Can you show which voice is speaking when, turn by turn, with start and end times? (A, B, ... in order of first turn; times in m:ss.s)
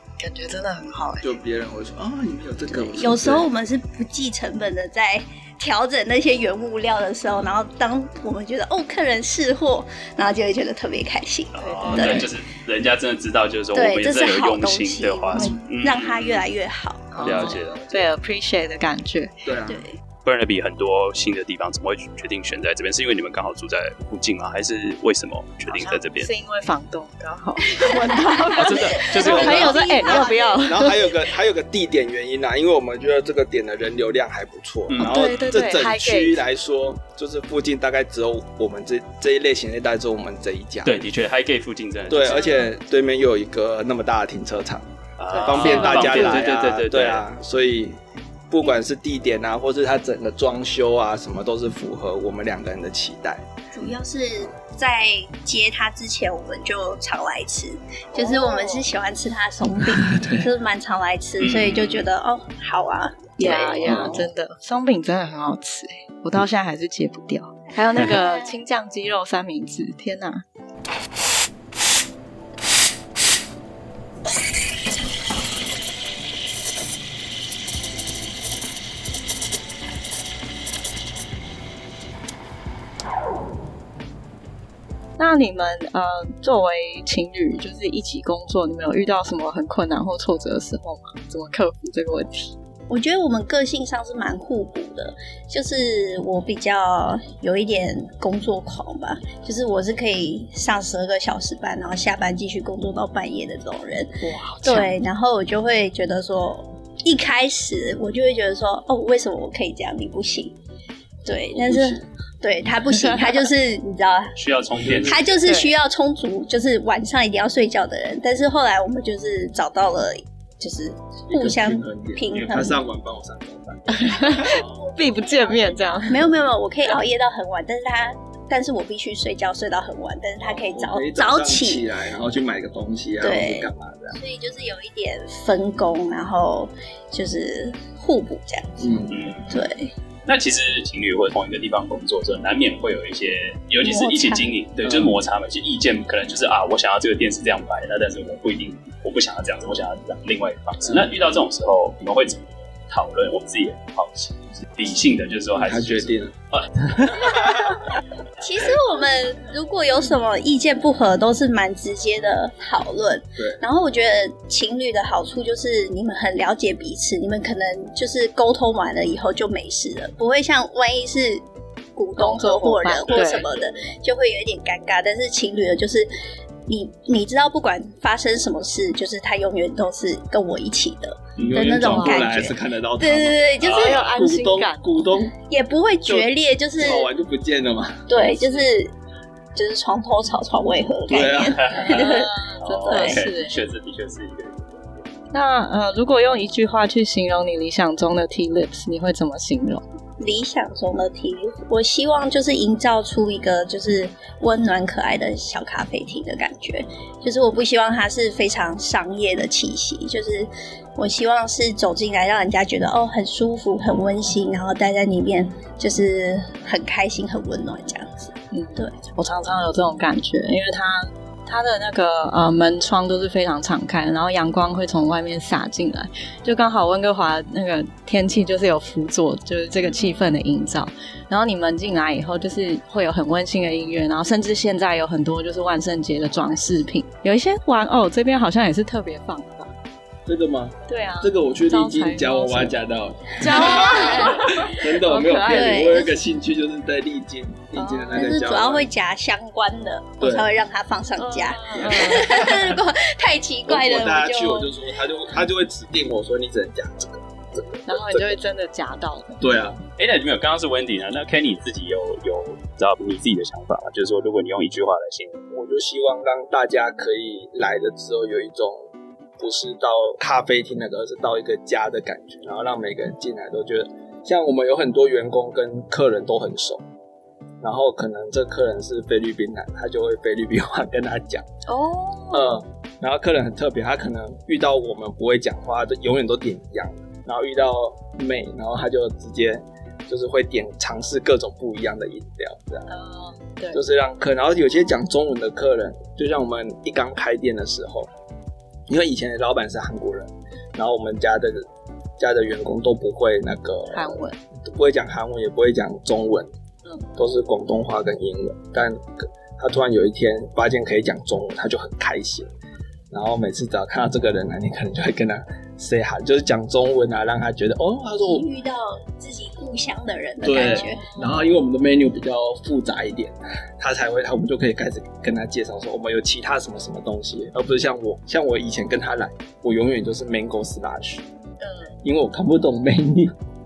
0:00.2-0:01.3 A
0:01.2-0:03.5 B
0:02.7-0:12.3 C
0:11.5-0:16.5 D
0:11.6-0:12.3 A
0:13.7-0:17.5 C
0:15.3-0:15.6 B
0:17.1-0:19.3 A
0:17.2-0:18.1 D
0:19.4-0:19.8 B
0:19.6-0:20.0 C
0:20.2-0:26.3 D
0:25.7-0:31.1 A
0:27.8-0:30.6 C
0:28.5-0:30.2 D
0:29.2-0:29.5 B
0:30.6-0:41.0 B
0:34.9-0:35.5 D
0:35.0-0:36.4 A
0:40.8-0:42.5 D
0:42.1-0:44.8 B
0:45.2-0:47.2 D
0:45.3-0:46.4 A
0:45.4-0:48.0 B
0:48.5-0:53.4 B
0:53.7-1:04.1 C
0:58.1-0:58.9 A
0:59.8-1:00.5 B
1:01.4-1:02.1 D
1:03.4-1:10.4 A
1:03.8-1:04.2 B
1:08.1-1:08.5 C
1:25.2-1:32.5 A
1:32.9-1:50.6 C
1:44.2-1:44.9 A
1:51.2-1:54.3 C
1:51.5-1:52.0 B
1:54.4-1:55.3 D
1:54.8-1:55.3 B
1:55.0-2:02.8 C
1:55.4-1:55.7 A
2:01.3-2:04.8 B
2:03.9-2:06.2 A
2:04.3-2:11.8 C
2:10.4-2:14.2 B
2:13.2-2:19.9 C
2:18.8-2:19.2 B
2:19.1-2:19.6 D
2:20.2-2:37.6 D
2:23.8-2:24.5 C
2:24.8-2:25.1 B
2:35.5-2:36.3 B
2:37.0-2:37.8 B
2:38.4-2:56.1 C
2:52.2-2:53.5 A
2:53.3-2:53.5 B
2:56.7-3:04.0 C
3:01.4-3:05.4 B
3:01.8-3:02.3 A
3:03.6-3:04.0 D
3:03.7-3:04.9 A
3:05.4-3:07.1 C
3:06.0-3:08.6 B
3:08.1-3:08.9 C
3:09.5-3:12.3 C
3:11.1-3:11.9 B
3:11.4-3:15.0 D
3:11.7-3:13.6 A
3:12.9-3:13.2 C
3:15.3-3:19.8 A
3:20.2-3:39.0 C
3:38.5-3:59.7 A
4:00.2-4:08.9 B
4:00.9-4:02.7 A
4:03.4-4:06.0 A
4:03.6-4:04.5 C
4:05.4-4:06.1 C
4:07.7-4:08.3 A
4:08.1-4:14.7 C
4:10.2-4:10.5 B
4:11.2-4:12.5 A
4:11.8-4:12.5 B
4:13.7-4:18.4 B
4:17.8-4:19.4 A
4:19.4-4:19.8 B
4:20.0-4:25.4 D
4:25.5-4:28.8 B
4:29.4-4:36.8 B
4:37.6-4:41.4 B
4:41.7-4:42.6 A
4:42.3-4:52.9 B
4:52.9-4:53.8 A
4:53.7-4:58.1 B
4:58.9-5:01.7 B
5:02.2-5:06.5 B
5:03.9-5:04.4 A
5:07.2-5:12.5 B
5:13.1-5:18.4 B
5:18.2-5:21.1 C
5:20.4-5:31.2 B
5:20.6-5:20.9 A
5:31.6-5:31.9 A
5:32.0-5:33.3 B